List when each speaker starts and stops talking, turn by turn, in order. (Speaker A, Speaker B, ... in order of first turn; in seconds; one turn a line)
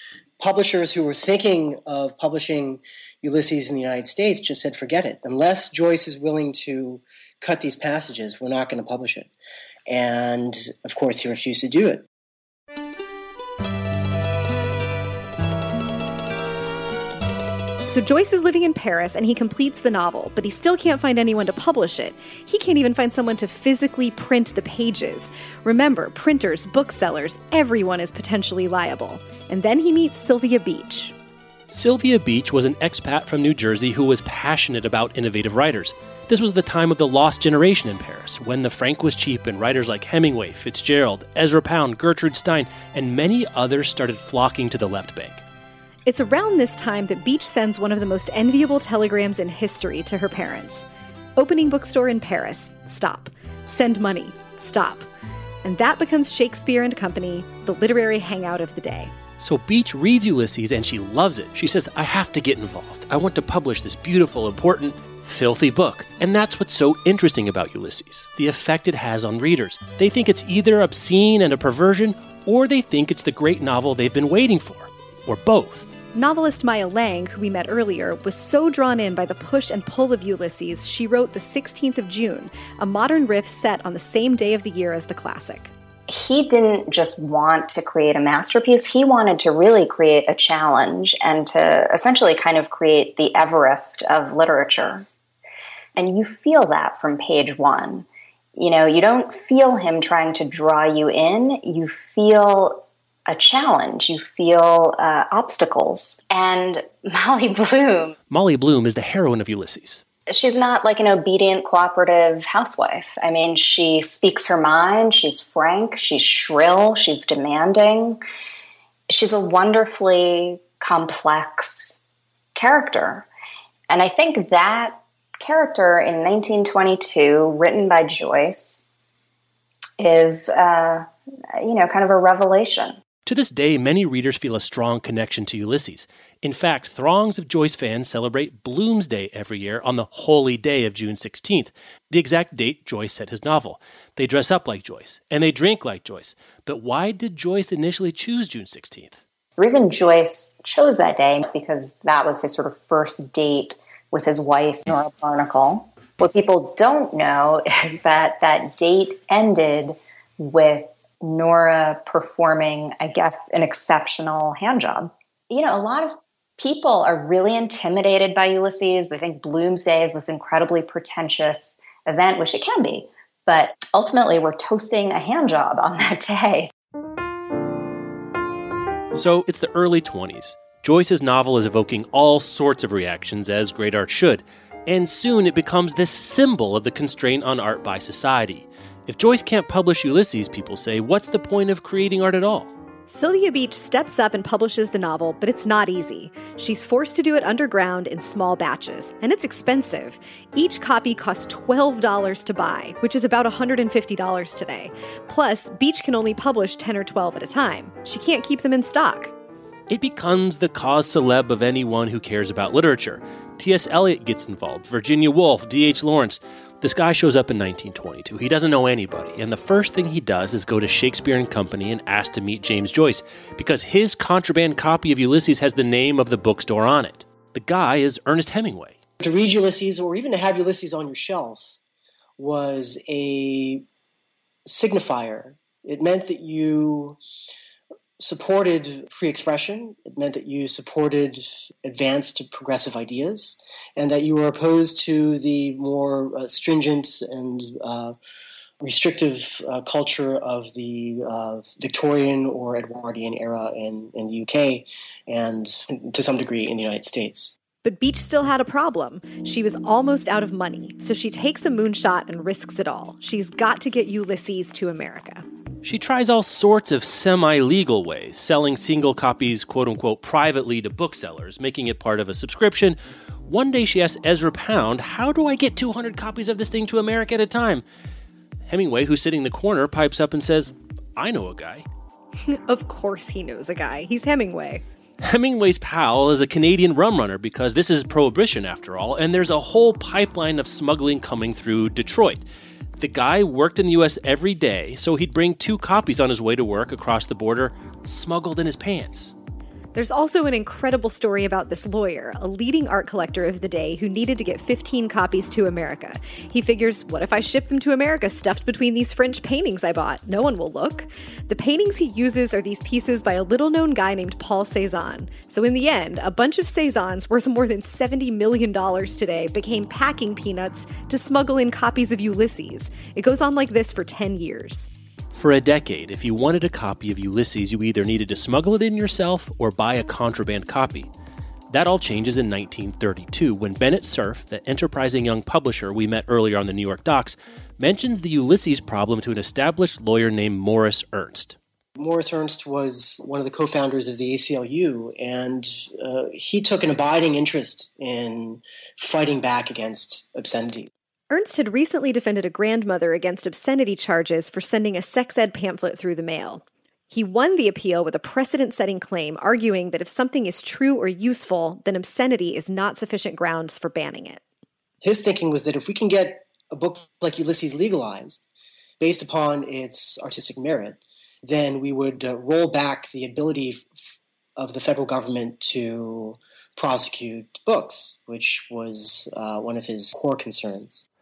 Speaker A: 0.4-9.3
Speaker A: 9.9-12.1
Speaker B: 17.9-31.1
Speaker C: 31.7-45.4
Speaker B: 46.0-55.1
Speaker B: 55.6-59.1
Speaker C: 59.4-75.9
Speaker B: 76.1-85.7
Speaker D: 86.1-95.1
Speaker D: 96.0-108.1
Speaker C: 108.3-110.0
Speaker D: 110.3-118.2
Speaker D: 119.1-122.0
Speaker D: 122.5-123.3
Speaker D: 123.9-128.8
Speaker D: 130.0-133.0
Speaker C: 133.2-149.2
Speaker D: 149.6-176.7
Speaker C: 179.1-192.7
Speaker B: 193.1-209.3
Speaker C: 209.9-228.9
Speaker A: 229.2-231.8
Speaker A: 232.4-233.8
Speaker A: 234.7-237.2
Speaker A: 238.2-248.2
Speaker A: 248.8-257.5
Speaker B: 257.8-265.4
Speaker C: 265.8-277.8
Speaker C: 278.7-281.9
Speaker B: 282.5-284.8
Speaker C: 285.2-292.4
Speaker C: 293.0-299.3
Speaker B: 299.9-324.9
Speaker C: 325.3-331.1
Speaker C: 331.7-341.6
Speaker A: 342.0-350.9
Speaker B: 351.3-364.4
Speaker A: 365.0-368.4
Speaker A: 369.0-373.9
Speaker A: 374.6-381.0